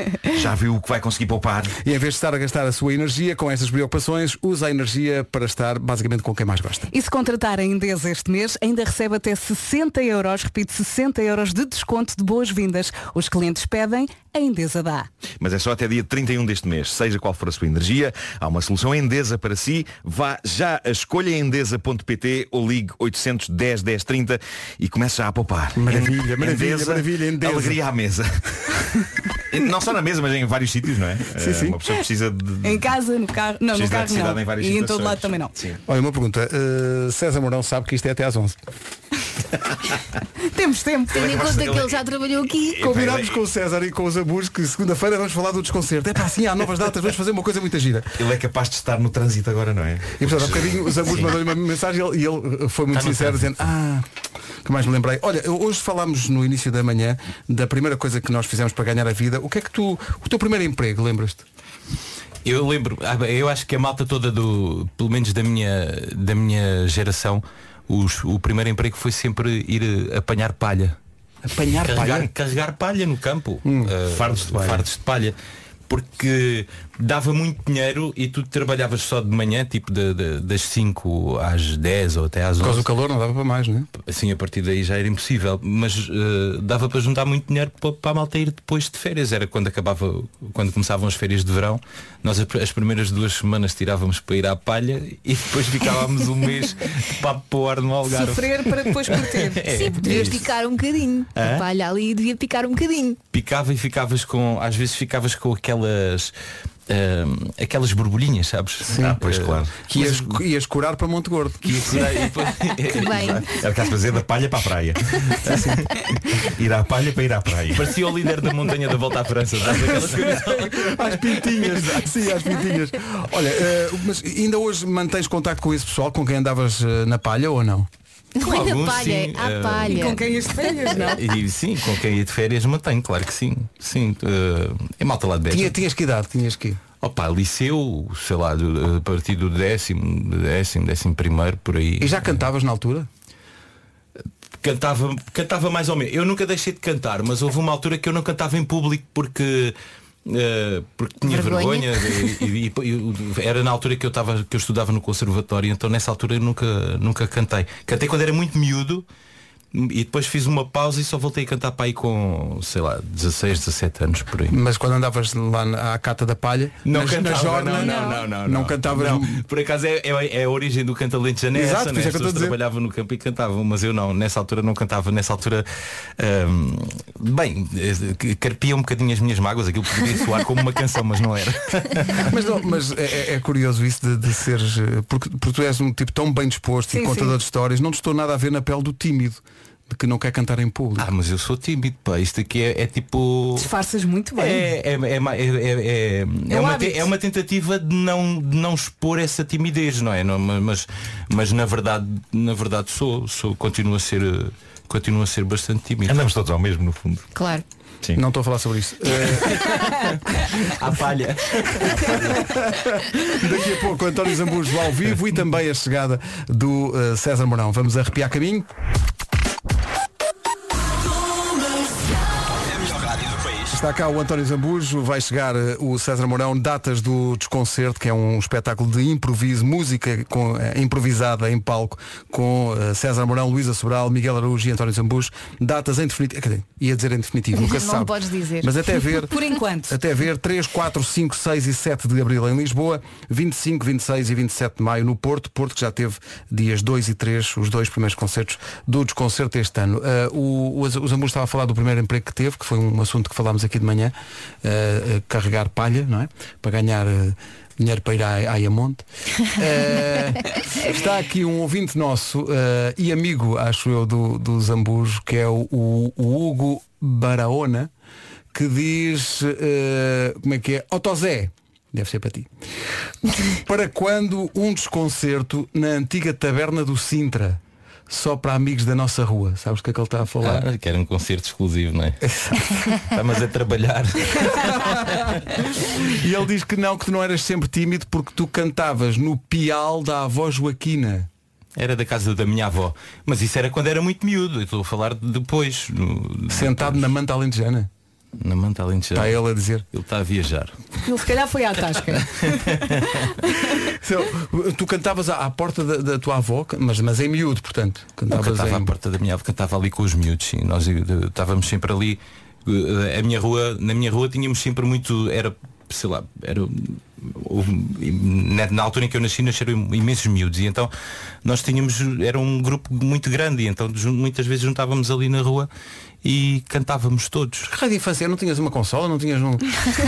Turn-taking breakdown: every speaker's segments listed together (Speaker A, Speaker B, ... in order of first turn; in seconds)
Speaker A: 0.3-1.8, 15.4-28.8, 29.4-32.9, 33.7-35.8, 41.1-42.1, 42.7-43.4, 48.2-51.4, 74.2-74.5, 109.0-109.8, 113.6-115.0, 116.5-118.0, 206.1-207.3
Speaker B: 1.8-6.9, 25.8-27.8, 31.4-31.8, 35.9-38.6, 42.8-48.2, 50.2-54.1, 54.6-61.5, 71.4-72.3, 73.6-74.9, 82.6-83.9, 108.8-109.3, 109.8-112.0, 115.4-115.8, 119.7-127.9, 135.5-136.8, 142.0-143.1, 164.5-169.4, 171.5-172.6, 182.3-191.1, 208.2-209.7, 212.0-218.7, 223.7-239.4, 239.9-267.9, 268.5-272.5, 273.5-280.7, 282.3-282.6, 284.6-285.2, 285.9-291.3, 296.5-297.9, 299.1-299.9, 304.0-308.9, 327.7-329.7
Speaker C: 6.9-15.1, 32.6-35.6, 40.5-41.4, 98.1-100.2, 129.9-131.2, 186.9-187.4, 193.6-194.7, 196.5-197.1, 239.2-240.0, 301.0-303.1
Speaker D: 41.1-42.9, 99.7-103.2, 112.9-113.5, 128.4-130.2, 130.9-131.2, 151.2-152.3, 207.4-207.6, 237.6-238.7
Speaker E: 52.9-53.5, 62.5-71.0, 71.8-75.3, 75.9-82.9, 83.9-100.5, 101.3-101.6, 103.3-106.3, 106.9-110.4, 111.6-113.6, 117.7-121.9, 128.4-130.1, 130.9-135.8, 137.0-142.2, 144.6-159.1, 159.7-164.6, 166.8-175.7, 176.2-182.3, 191.0-193.7, 194.4-206.2, 209.3-212.4, 222.9-223.2, 280.4-282.2, 283.1-285.2, 291.8-297.1, 298.4-299.4, 299.9-300.8, 302.1-303.3, 308.3-320.9, 321.4-325.7, 326.2-327.7